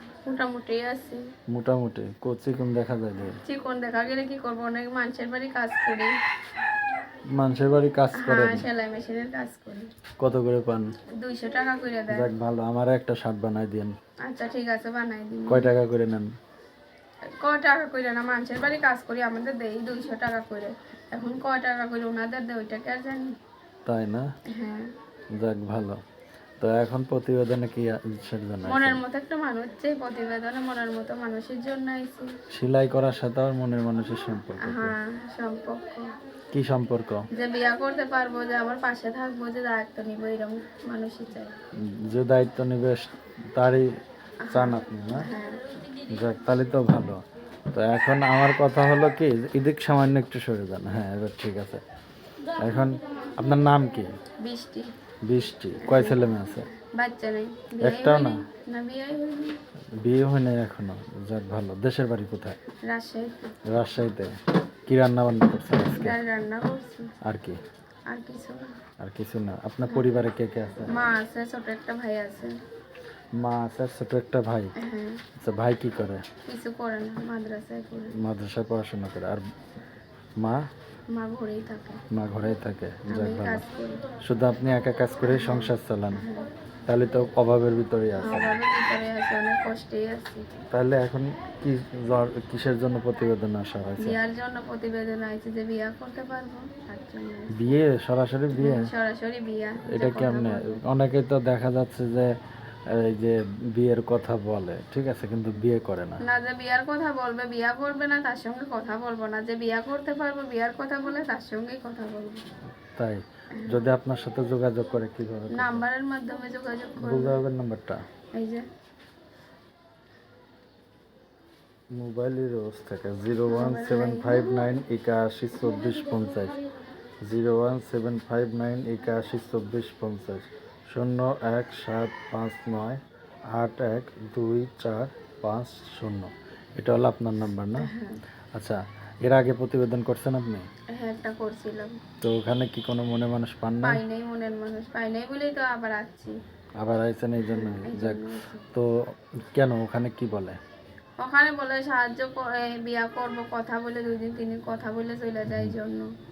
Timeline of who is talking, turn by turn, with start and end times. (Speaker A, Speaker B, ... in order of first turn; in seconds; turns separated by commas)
Speaker A: 0.3-1.2, Speaker B: 1.5-3.4, Speaker A: 3.3-6.1, Speaker B: 7.3-8.7, Speaker A: 8.2-9.9, Speaker B: 10.2-10.9, Speaker A: 11.2-12.3, Speaker B: 12.1-13.9, Speaker A: 14.3-15.7, Speaker B: 15.5-16.3, Speaker A: 17.4-23.3, Speaker B: 23.9-24.3, Speaker A: 24.5-24.9, Speaker B: 25.4-26.0, Speaker B: 26.6-29.0, Speaker A: 28.6-32.3, Speaker B: 32.5-35.0, Speaker A: 34.6-36.1, Speaker B: 36.5-37.3, Speaker A: 37.3-41.5, Speaker B: 41.9-43.9, Speaker B: 44.5-45.3, Speaker A: 44.5-45.7, Speaker B: 46.1-51.8, Speaker B: 52.6-54.1, Speaker A: 54.4-54.9, Speaker B: 55.3-56.7, Speaker A: 55.8-59.6, Speaker B: 57.8-58.4, Speaker B: 60.0-62.6, Speaker A: 62.9-63.5, Speaker B: 63.7-64.3, Speaker B: 64.9-66.2, Speaker A: 65.9-67.1, Speaker B: 67.2-67.6, Speaker A: 68.1-68.8, Speaker B: 69.0-71.0, Speaker A: 69.8-70.1, Speaker A: 70.9-72.5, Speaker B: 73.4-74.7, Speaker A: 74.8-75.2, Speaker B: 75.4-76.3, Speaker A: 76.5-78.2, Speaker B: 78.2-79.4, Speaker B: 80.4-80.6, Speaker A: 81.1-82.0, Speaker B: 82.1-83.7, Speaker A: 83.1-84.0, Speaker B: 84.2-86.3, Speaker A: 85.3-86.5, Speaker B: 86.9-88.6, Speaker A: 88.2-90.5, Speaker B: 90.7-94.2, Speaker A: 94.0-97.8, Speaker B: 97.5-98.9, Speaker A: 98.5-100.8, Speaker B: 99.9-102.3, Speaker B: 103.0-106.2, Speaker A: 106.2-112.5, Speaker B: 113.0-115.8, Speaker A: 113.6-113.9, Speaker A: 115.5-117.4, Speaker B: 117.0-118.0, Speaker A: 118.3-118.7, Speaker B: 121.9-126.6, Speaker A: 123.5-124.6, Speaker B: 127.2-133.0, Speaker B: 133.5-137.9, Speaker A: 137.8-138.2, Speaker B: 138.6-140.7, Speaker A: 140.9-142.0, Speaker B: 142.2-144.0, Speaker A: 143.8-146.3, Speaker B: 146.8-148.9, Speaker A: 147.5-148.7, Speaker B: 149.5-150.6, Speaker A: 151.2-156.1, Speaker B: 155.5-155.8